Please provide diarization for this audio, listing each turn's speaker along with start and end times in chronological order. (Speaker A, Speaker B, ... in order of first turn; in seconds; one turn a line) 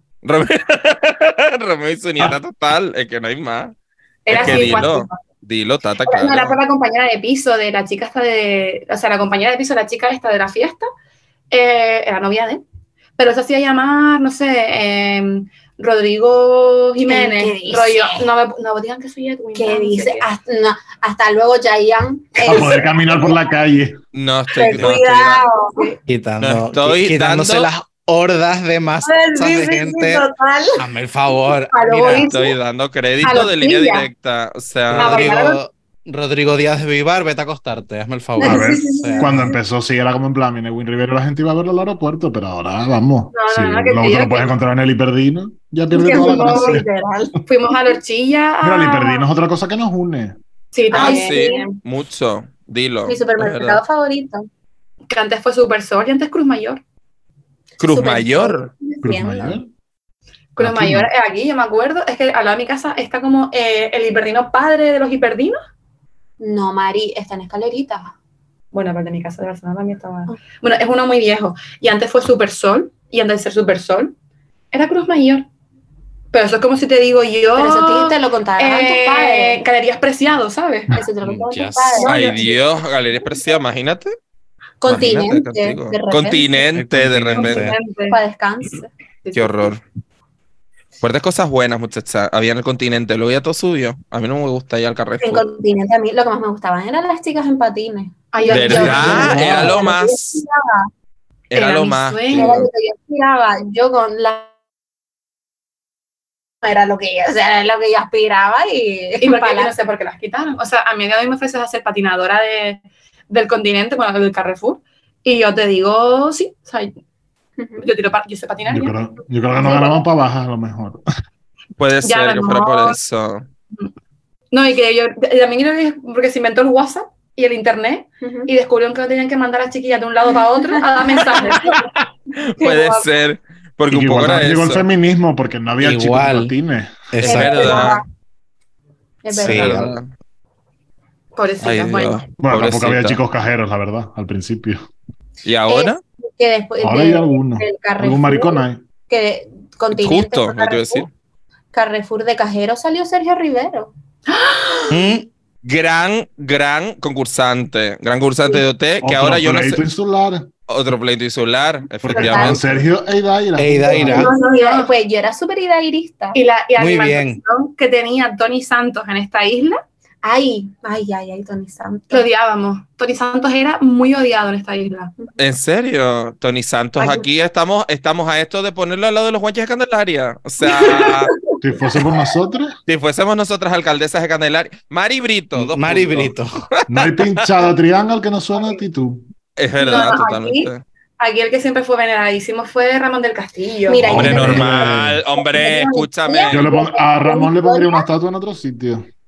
Speaker A: 0.2-3.8
Speaker B: 4.2-5.2
Speaker A: 4.3-6.6
Speaker C: 4.3-4.8
Speaker B: 6.0-10.9
Speaker B: 11.5-12.6
Speaker B: 13.2-20.3
Speaker D: 17.0-18.3
Speaker D: 19.6-23.4
Speaker C: 22.4-24.0
Speaker A: 24.1-25.4
Speaker D: 24.5-26.0
Speaker E: 26.1-30.2
Speaker A: 26.4-27.7
Speaker D: 29.0-30.9
Speaker E: 30.8-32.3
Speaker D: 31.7-32.5
Speaker A: 32.1-35.3
Speaker B: 33.2-34.0
Speaker E: 34.9-39.5
Speaker B: 34.9-35.6
Speaker D: 38.4-39.6
Speaker C: 38.4-46.9
Speaker B: 43.3-44.5
Speaker D: 45.9-48.0
Speaker B: 46.0-46.8
Speaker B: 47.5-49.3
Speaker C: 48.6-50.4
Speaker B: 50.7-51.7
Speaker D: 50.9-51.8
Speaker A: 50.9-53.8
Speaker D: 53.1-54.5
Speaker B: 55.1-56.8
Speaker A: 57.8-58.7
Speaker D: 57.8-59.6
Speaker C: 59.0-59.7
Speaker B: 60.6-65.6
Speaker C: 60.6-61.1
Speaker D: 66.4-68.1
Speaker B: 68.7-74.2
Speaker B: 74.7-75.5
Speaker B: 76.3-81.0
Speaker D: 77.6-79.6
Speaker D: 80.9-82.2
Speaker E: 81.2-82.0
Speaker B: 82.0-82.6
Speaker A: 82.0-84.1
Speaker D: 84.8-86.7
Speaker A: 84.8-87.7
Speaker E: 86.8-87.8
Speaker B: 87.4-88.2
Speaker D: 88.1-88.9
Speaker B: 89.2-89.7
Speaker A: 89.3-89.8
Speaker A: 91.0-95.5
Speaker D: 95.2-100.9
Speaker B: 98.3-99.8
Speaker A: 98.5-100.4
Speaker C: 98.8-99.7
Speaker A: 101.5-102.7
Speaker B: 101.5-102.7
Speaker D: 102.3-104.5
Speaker D: 106.6-109.7
Speaker B: 109.2-116.9
Speaker D: 117.6-117.9
Speaker B: 117.8-119.0
Speaker C: 118.7-121.0
Speaker D: 119.6-120.0
Speaker A: 121.8-123.5
Speaker B: 122.0-123.0
Speaker B: 124.5-131.9
Speaker D: 128.2-128.5
Speaker D: 130.7-131.6
Speaker A: 131.5-131.8
Speaker A: 132.5-134.8
Speaker B: 132.6-133.1
Speaker C: 133.9-137.1
Speaker E: 135.8-136.5
Speaker E: 137.1-137.9
Speaker A: 137.2-138.0
Speaker D: 137.2-138.0
Speaker D: 139.2-139.9
Speaker E: 139.3-140.0
Speaker A: 139.4-140.1
Speaker B: 141.3-142.2
Speaker A: 141.6-143.2
Speaker C: 142.4-144.8
Speaker A: 145.4-146.0
Speaker D: 145.7-151.1
Speaker C: 146.8-148.8
Speaker A: 149.9-151.1
Speaker D: 151.7-153.9
Speaker B: 154.3-155.1
Speaker E: 154.9-155.3
Speaker A: 155.6-159.8
Speaker C: 159.0-160.5
Speaker A: 160.7-162.9
Speaker C: 162.0-164.3
Speaker D: 162.1-162.6
Speaker E: 163.6-164.3
Speaker D: 164.0-166.4
Speaker B: 164.1-164.9
Speaker B: 166.3-169.8
Speaker E: 166.8-167.4
Speaker D: 170.2-172.3
Speaker B: 172.1-175.1
Speaker A: 175.4-181.3
Speaker C: 181.6-182.8
Speaker A: 182.9-187.5
Speaker E: 185.6-186.5
Speaker C: 186.9-189.3
Speaker A: 189.6-190.8
Speaker B: 189.8-194.1
Speaker D: 193.9-198.1
Speaker C: 194.0-195.2
Speaker A: 194.1-196.6
Speaker C: 196.5-199.1